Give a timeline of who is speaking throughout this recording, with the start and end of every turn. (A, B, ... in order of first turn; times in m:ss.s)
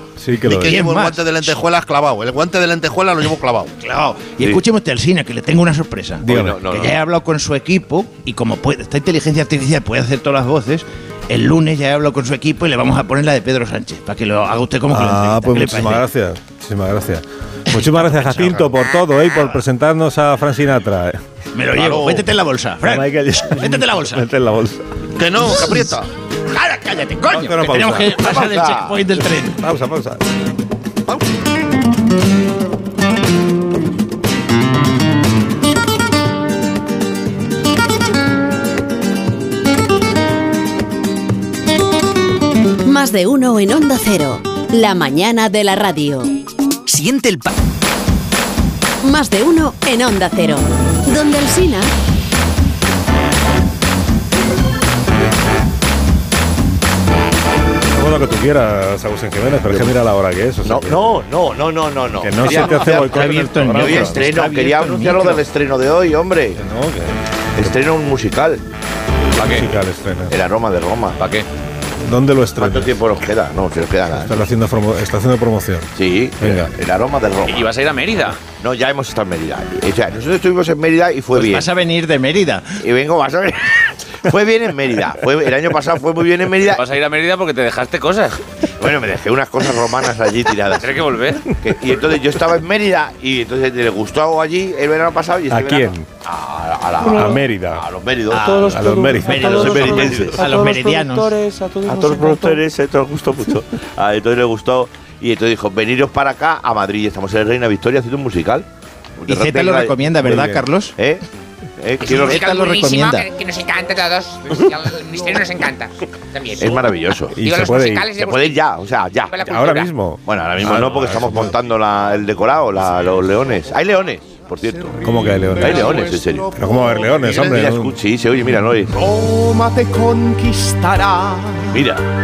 0:00.2-0:00.8 A
0:00.4-0:03.7 B
0:00.5-0:01.6 C
0:03.8-0:16.0 C
0:06.2-0:06.6 A
0:06.3-0:06.9 D
0:14.9-0:21.2 A
0:17.7-0:18.7 C
0:21.5-0:24.3 C
0:21.7-0:22.3 B
0:22.8-0:25.0 A
0:25.1-0:26.1 B
0:26.5-0:29.6 C
0:27.3-0:28.3 A
0:28.2-0:29.0 D
0:29.4-0:30.2 A
0:42.8-0:46.3 E
0:49.0-0:51.9 E
0:57.9-1:01.2 A
1:00.6-1:06.6 D
1:02.2-1:04.2 A
1:02.5-1:05.4 C
1:06.6-1:07.7 A
1:07.5-1:08.6 D
1:09.4-1:09.7 F
1:09.4-1:10.4 A
1:10.3-1:11.2 D
1:11.2-1:11.4 F
1:12.0-1:12.9 A
1:12.6-1:14.4 D
1:14.2-1:16.7 A
1:16.0-1:17.7 D
1:17.4-1:18.4 F
1:18.5-1:21.7 D
1:21.3-1:22.8 C
1:22.8-1:26.8 D
1:26.7-1:28.4 F
1:28.8-1:31.0 D
1:30.8-1:31.4 F
1:31.6-1:38.7 D
1:35.5-1:36.1 A
1:37.0-1:37.4 G
1:37.0-1:37.8 A
1:38.3-1:41.4 C
1:38.3-1:42.6 G
1:38.6-1:40.3 A
1:39.4-1:40.5 D
1:41.8-1:48.6 D
1:49.2-1:51.2 D
1:49.3-1:51.0 C
1:50.2-1:50.6 A
1:51.8-1:52.6 D
1:52.0-1:53.3 C
1:52.0-1:56.8 H
1:56.6-1:57.4 D
1:57.3-1:58.2 A
1:57.4-1:58.6 H
1:58.1-2:05.0 D
1:59.3-1:59.9 H
1:59.4-2:01.5 A
2:04.7-2:07.2 G
2:05.0-2:08.0 A
2:05.6-2:06.5 D
2:07.1-2:07.6 B
2:07.3-2:08.9 D
2:08.9-2:11.8 G
2:11.7-2:12.0 D